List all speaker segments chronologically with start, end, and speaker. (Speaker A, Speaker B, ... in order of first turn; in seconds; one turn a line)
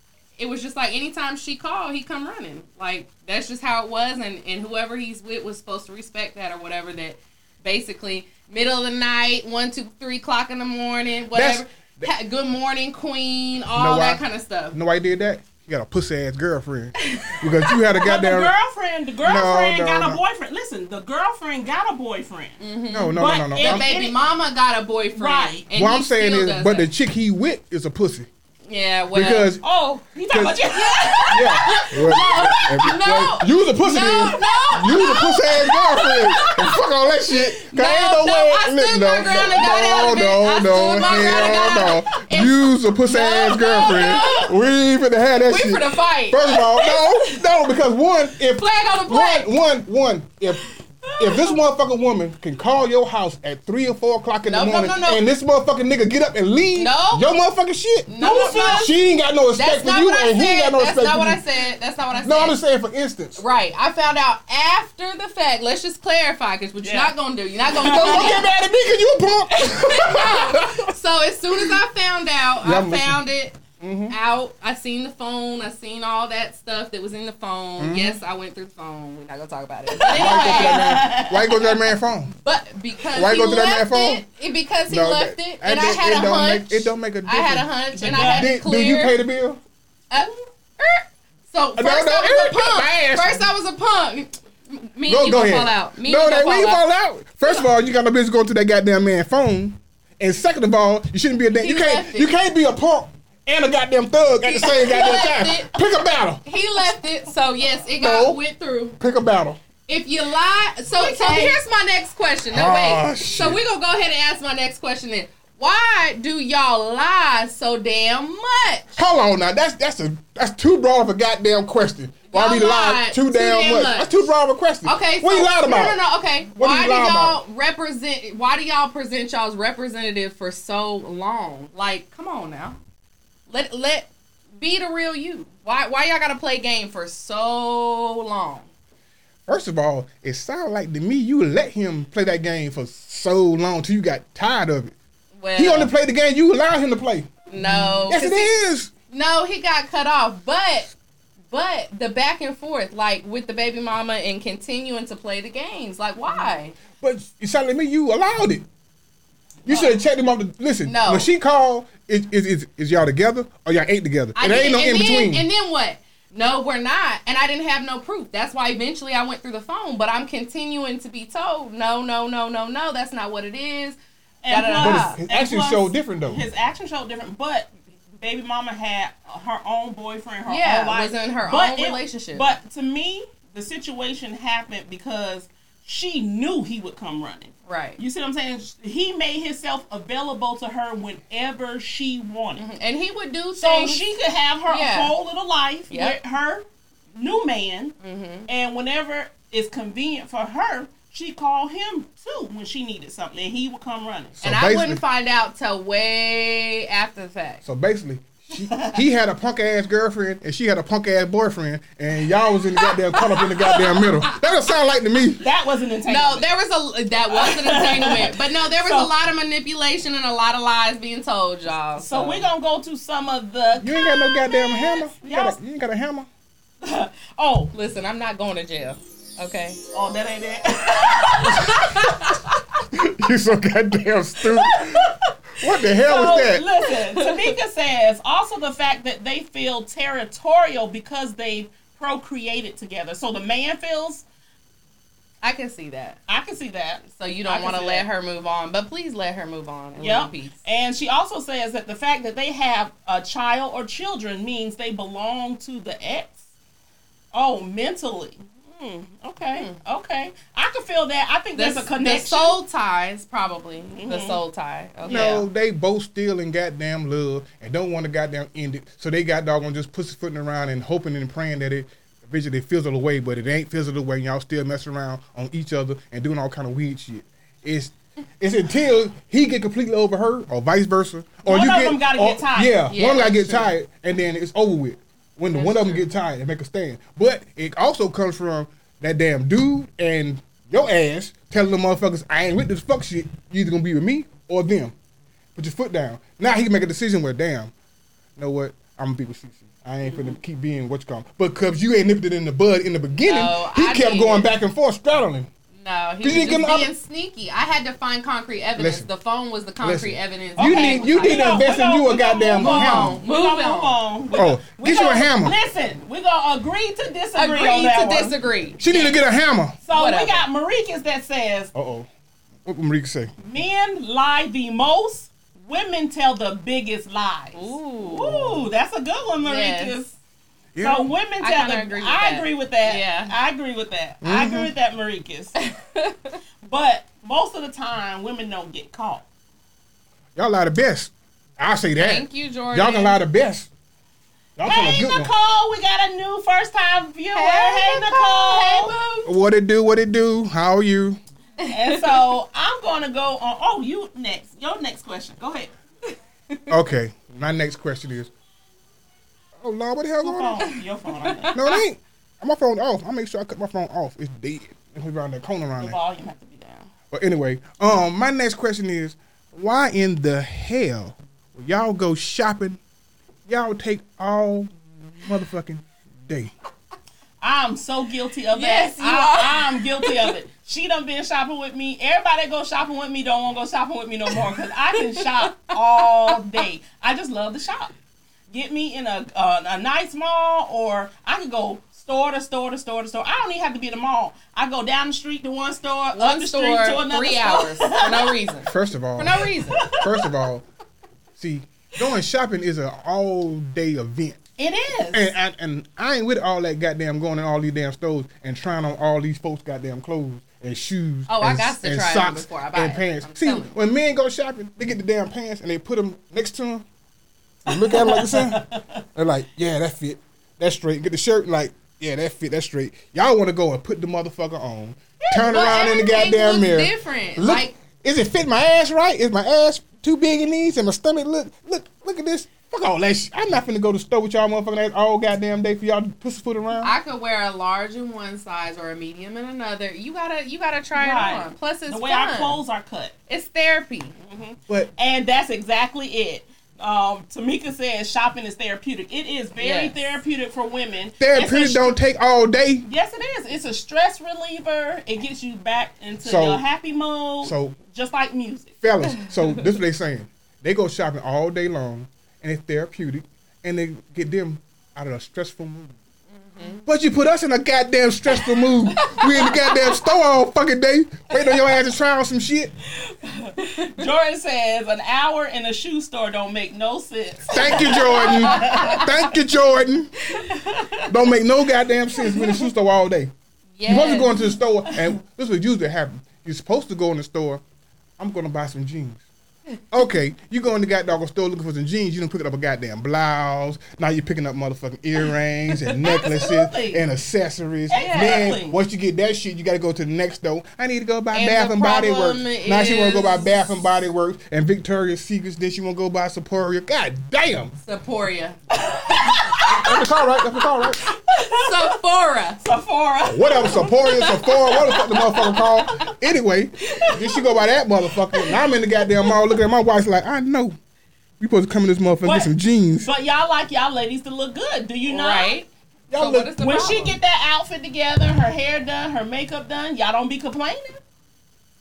Speaker A: 0.4-14.8
Speaker B: 11.3-12.1
Speaker B: 13.7-18.5
Speaker C: 17.9-22.6
Speaker B: 19.2-20.2
Speaker A: 22.6-26.9
Speaker B: 22.9-23.9
Speaker C: 23.2-24.2
Speaker C: 25.1-25.6
Speaker B: 25.7-28.3
Speaker A: 28.7-29.5
Speaker B: 29.1-29.6
Speaker C: 29.6-33.0
Speaker B: 30.3-30.6
Speaker A: 30.8-36.8
Speaker B: 31.3-61.4
Speaker C: 34.4-36.5
Speaker A: 37.5-44.5
Speaker C: 39.2-40.2
Speaker C: 41.0-41.8
Speaker C: 43.8-44.5
Speaker A: 45.5-47.4
Speaker A: 48.6-49.5
Speaker A: 54.5-55.2
Speaker A: 56.8-57.3
Speaker A: 58.1-58.9
Speaker C: 58.2-58.9
Speaker A: 59.5-62.6
Speaker B: 62.2-63.4
Speaker A: 63.4-68.4
Speaker C: 66.8-67.1
Speaker C: 67.7-68.4
Speaker B: 67.8-70.9
Speaker A: 69.8-73.6
Speaker B: 72.6-73.2
Speaker B: 73.8-74.1
Speaker A: 74.1-81.2
Speaker B: 77.8-78.2
Speaker C: 79.9-81.8
Speaker B: 80.1-82.3
Speaker A: 82.4-89.2
Speaker B: 83.1-84.2
Speaker B: 84.9-89.6
Speaker C: 88.0-88.5
Speaker A: 90.1-96.8
Speaker B: 91.8-93.4
Speaker B: 95.1-106.4
Speaker A: 101.6-102.3
Speaker A: 104.4-105.8
Speaker A: 106.4-109.0
Speaker B: 108.0-108.4
Speaker B: 109.0-109.6
Speaker A: 109.9-118.9
Speaker C: 111.0-111.6
Speaker B: 112.5-113.6
Speaker B: 119.0-126.0
Speaker A: 122.3-124.2
Speaker A: 124.8-132.8
Speaker B: 126.5-127.4
Speaker A: 133.5-138.7
Speaker B: 139.5-144.9
Speaker A: 145.4-145.9
Speaker B: 145.6-148.9
Speaker A: 147.5-148.5
Speaker A: 149.1-150.9
Speaker A: 151.5-156.8
Speaker B: 156.9-158.6
Speaker B: 159.7-165.4
Speaker A: 160.8-161.3
Speaker A: 164.4-175.2
Speaker C: 174.4-192.7
Speaker B: 174.8-176.4
Speaker A: 180.5-182.5
Speaker A: 187.7-188.0
Speaker A: 192.6-194.0
Speaker C: 193.6-196.6
Speaker A: 194.7-195.1
Speaker A: 195.9-196.2
Speaker C: 197.1-197.9
Speaker A: 198.0-198.5
Speaker C: 198.5-204.4
Speaker B: 204.4-205.0
Speaker A: 204.4-207.6
Speaker B: 207.6-215.4
Speaker C: 208.7-209.0
Speaker C: 215.4-216.5
Speaker A: 216.1-222.5
Speaker C: 217.3-219.1
Speaker C: 221.9-225.6
Speaker B: 223.8-226.3
Speaker C: 226.8-227.7
Speaker A: 227.7-229.8
Speaker C: 229.9-232.2
Speaker A: 231.6-232.4
Speaker B: 232.9-235.1
Speaker C: 234.6-235.3
Speaker B: 235.6-236.6
Speaker C: 236.0-244.2
Speaker A: 245.4-246.2
Speaker C: 246.3-248.1
Speaker A: 247.2-250.6
Speaker C: 250.0-256.3
Speaker C: 257.3-262.6
Speaker A: 261.6-265.4
Speaker C: 263.9-264.4
Speaker B: 265.1-294.9
Speaker C: 281.4-282.9
Speaker A: 282.9-283.7
Speaker A: 285.5-286.1
Speaker B: 295.6-297.7
Speaker B: 298.4-305.5
Speaker C: 300.1-300.4
Speaker A: 303.2-304.5
Speaker A: 305.8-311.5
Speaker B: 306.2-306.9
Speaker B: 308.8-309.1
Speaker B: 309.8-313.2
Speaker C: 310.6-319.1
Speaker A: 312.6-314.0
Speaker B: 314.3-315.6
Speaker A: 317.4-318.8
Speaker B: 318.8-319.8
Speaker C: 319.9-321.7
Speaker A: 319.9-320.4
Speaker B: 321.8-322.1
Speaker B: 322.6-323.3
Speaker C: 323.4-330.1
Speaker A: 327.5-328.4
Speaker B: 328.2-328.7
Speaker A: 329.4-330.0
Speaker B: 330.7-331.1
Speaker C: 330.8-335.6
Speaker A: 331.4-333.3
Speaker B: 334.2-334.7
Speaker A: 335.6-336.4
Speaker C: 336.6-339.2
Speaker B: 340.4-343.7
Speaker A: 342.0-343.2
Speaker B: 344.6-345.3
Speaker C: 344.6-349.0
Speaker A: 347.4-349.3
Speaker B: 349.2-351.2
Speaker A: 351.6-352.3
Speaker C: 351.7-355.7
Speaker B: 356.7-358.3
Speaker B: 359.6-360.7
Speaker C: 360.2-361.6
Speaker A: 361.2-361.8
Speaker B: 361.5-366.0
Speaker C: 365.8-366.9
Speaker B: 367.1-372.8
Speaker B: 373.5-376.5
Speaker C: 377.4-387.9
Speaker A: 378.5-380.3
Speaker A: 385.4-386.4
Speaker C: 388.5-398.4
Speaker A: 396.1-399.9
Speaker B: 398.7-400.6
Speaker C: 399.8-400.2
Speaker B: 401.4-404.4
Speaker C: 404.6-405.3
Speaker B: 405.1-416.9
Speaker A: 411.3-413.7
Speaker B: 417.6-418.6
Speaker C: 417.7-419.0
Speaker B: 419.1-436.9
Speaker A: 425.2-427.8
Speaker A: 436.8-442.6
Speaker C: 440.9-443.1
Speaker A: 443.3-444.1
Speaker C: 444.2-452.0
Speaker A: 449.6-449.9
Speaker B: 451.2-452.9
Speaker C: 452.9-458.8
Speaker B: 456.2-456.6
Speaker B: 457.4-457.8
Speaker B: 458.8-465.9
Speaker A: 466.3-466.9
Speaker B: 466.9-472.7
Speaker A: 469.0-469.7
Speaker C: 473.0-479.1
Speaker A: 473.6-474.0
Speaker B: 477.5-480.2
Speaker A: 477.9-479.0
Speaker C: 480.3-481.1
Speaker B: 481.1-483.3
Speaker C: 482.3-482.6
Speaker A: 483.8-484.4
Speaker B: 483.9-487.6
Speaker B: 488.2-489.2
Speaker B: 489.9-507.7
Speaker C: 495.8-497.0
Speaker C: 497.9-498.8
Speaker A: 497.9-498.6
Speaker A: 501.3-503.7
Speaker A: 507.8-508.6
Speaker C: 508.8-510.1
Speaker B: 509.5-511.0
Speaker C: 510.6-511.9
Speaker A: 511.5-512.6
Speaker C: 512.6-516.1
Speaker B: 513.3-520.8
Speaker C: 516.9-517.4
Speaker C: 518.3-518.6
Speaker B: 521.4-523.1
Speaker C: 522.2-522.5
Speaker C: 523.0-525.6
Speaker A: 525.1-527.2
Speaker B: 526.1-526.5
Speaker C: 526.6-531.0